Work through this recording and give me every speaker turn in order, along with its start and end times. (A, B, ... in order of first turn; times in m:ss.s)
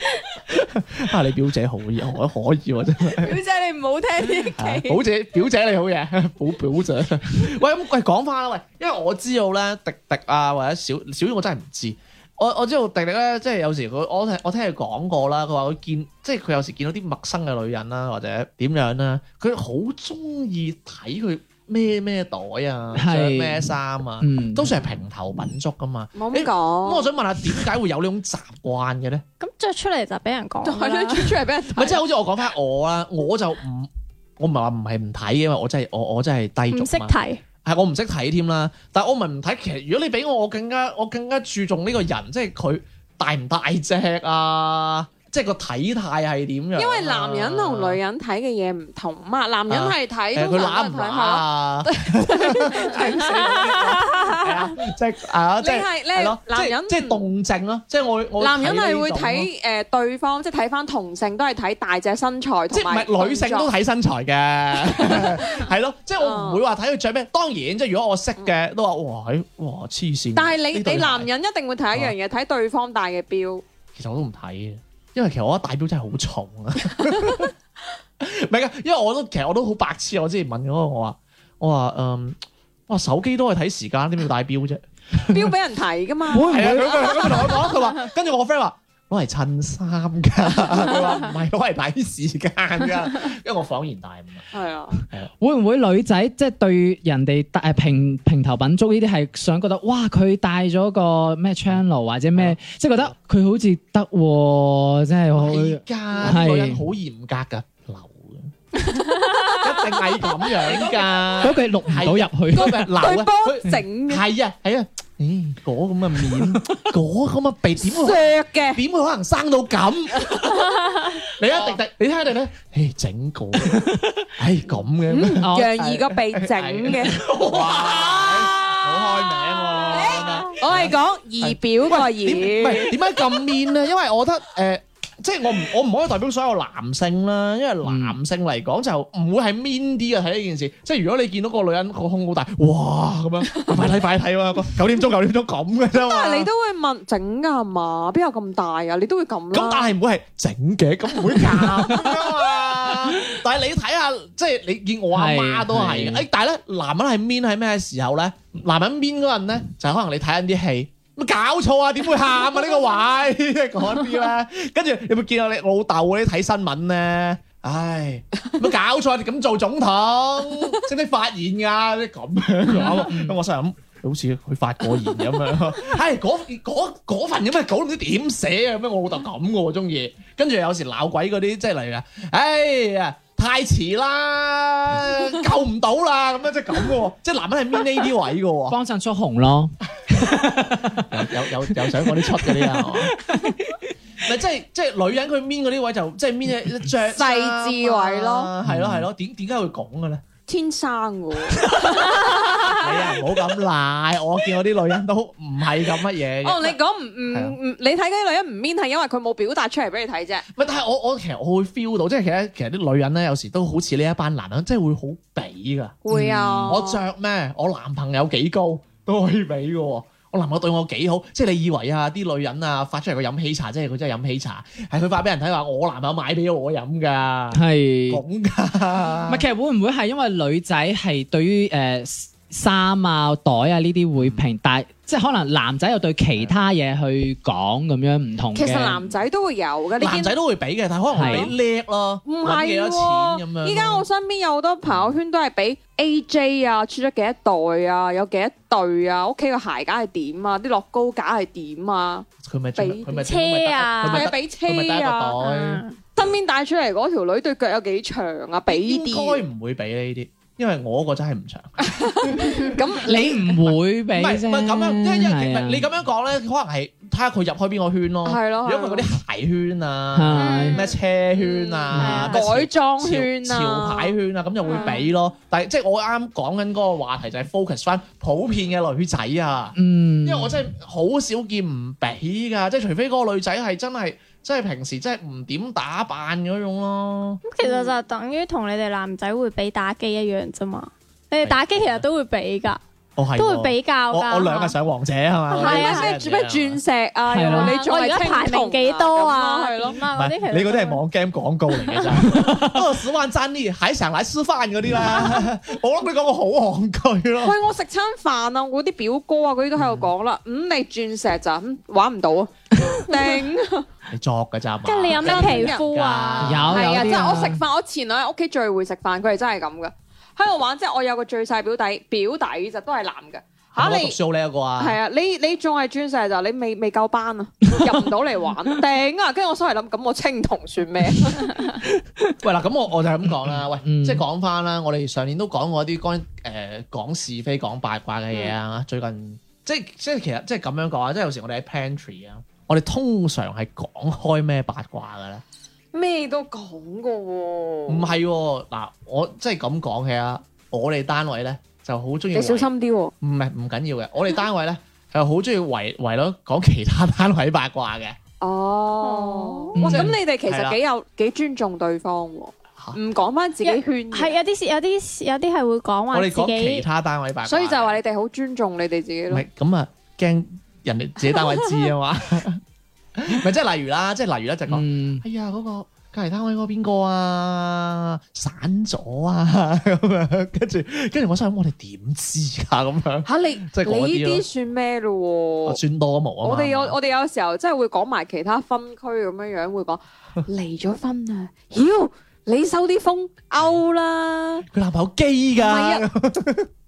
0:00.5-0:03.4 A
0:03.2-0:05.0 B
0:04.6-0:29.2 A
0:23.0-0:24.7 C
0:26.2-0:27.1 B
0:29.4-0:31.4 D
0:30.6-0:32.0 B
0:31.8-0:48.0 A
0:36.7-0:37.4 D
0:46.8-0:54.6 B
0:49.7-0:59.5 A
0:55.6-0:57.2 B
0:58.4-1:03.7 B
1:02.7-1:11.3 A
1:04.9-1:06.6 B
1:10.4-1:13.6 B
1:14.0-1:17.5 A
1:18.2-1:25.5 A
1:25.3-1:27.5 B
1:26.3-1:27.4 C
1:26.4-1:34.5 A
1:34.5-1:35.0 B
1:35.4-1:46.8 C
1:45.3-1:48.5 A
1:49.2-1:49.5 B
1:49.5-2:00.6 A
1:51.4-1:52.9 C
1:52.6-1:54.2 B
1:56.3-1:56.9 C
1:57.8-1:58.8 B
2:00.2-2:00.6 B
2:01.4-2:26.5 A
2:03.7-2:04.3 C
2:05.1-2:13.5 B
2:05.4-2:06.0 C
2:17.8-2:18.2 C
2:23.6-2:23.9 B
2:25.9-2:29.9 B
2:29.5-3:08.8 A
2:35.1-2:36.2 C
2:52.8-2:53.4 C
3:08.7-3:13.9 C
3:11.0-3:13.2 A
3:14.2-3:20.2 A
3:17.1-3:18.5 B
3:18.6-3:19.1 C
3:20.5-3:22.9 B
3:22.7-3:27.6 A
3:26.4-3:30.5 B
3:30.6-3:49.4 A
3:36.0-3:37.0 B
3:36.1-3:36.7 C
3:47.5-3:48.2 C
3:49.3-3:59.0 C
3:54.2-3:54.4 A
3:58.6-4:00.4 B
4:00.0-4:04.1 A
4:01.1-4:01.5 C
4:01.2-4:01.5 B
4:02.2-4:13.1 B
4:04.8-4:05.2 A
4:12.4-4:15.8 A
4:13.1-4:14.3 D
4:14.0-4:15.4 B
4:15.4-4:16.0 D
4:16.2-4:19.4 B
4:18.7-4:22.5 A
4:21.8-4:23.6 B
4:22.4-4:22.7 D
4:23.1-4:25.8 C
4:24.1-4:47.4 A
4:28.2-4:29.1 B
4:30.1-4:30.7 C
4:30.3-4:30.8 D
4:30.7-4:34.1 B
4:31.9-4:32.3 C
4:32.0-4:32.3 D
4:39.8-4:40.6 C
4:47.4-4:52.8 D
4:47.6-4:48.0 B
4:51.4-4:52.0 A
4:53.2-4:56.8 A
4:53.4-4:54.8 D
4:55.5-4:56.1 D
4:55.6-5:00.0 B
4:57.3-4:57.7 C
4:57.5-5:01.0 D
5:00.1-5:07.6 A
5:02.2-5:02.9 C
5:07.4-5:13.9 B
5:09.8-5:10.1 A
5:14.1-5:17.1 A
5:14.8-5:16.8 D
5:15.1-5:15.9 B
5:16.4-5:17.6 C
5:16.7-5:24.2 B
5:23.8-5:25.0 A
5:24.8-5:31.7 B
5:27.7-5:28.0 C
5:31.8-5:32.3 C
5:32.4-5:45.4 A
5:33.5-5:34.2 C
5:45.9-5:48.1 B
5:47.9-5:52.7 A
5:52.3-5:53.1 B
5:53.2-5:58.2 A
5:58.4-6:04.4 B
5:59.0-5:59.8 D
5:59.8-6:00.2 C
5:59.8-6:00.8 A
6:03.6-6:06.8 D
6:06.1-6:08.0 A
6:07.4-6:09.4 B
6:09.3-6:12.6 A
6:13.2-6:24.4 A
6:14.7-6:15.2 C
6:23.3-6:25.8 B
6:25.7-6:27.0 A
6:26.4-6:34.7 B
6:34.7-6:36.7 A
6:35.6-6:36.1 B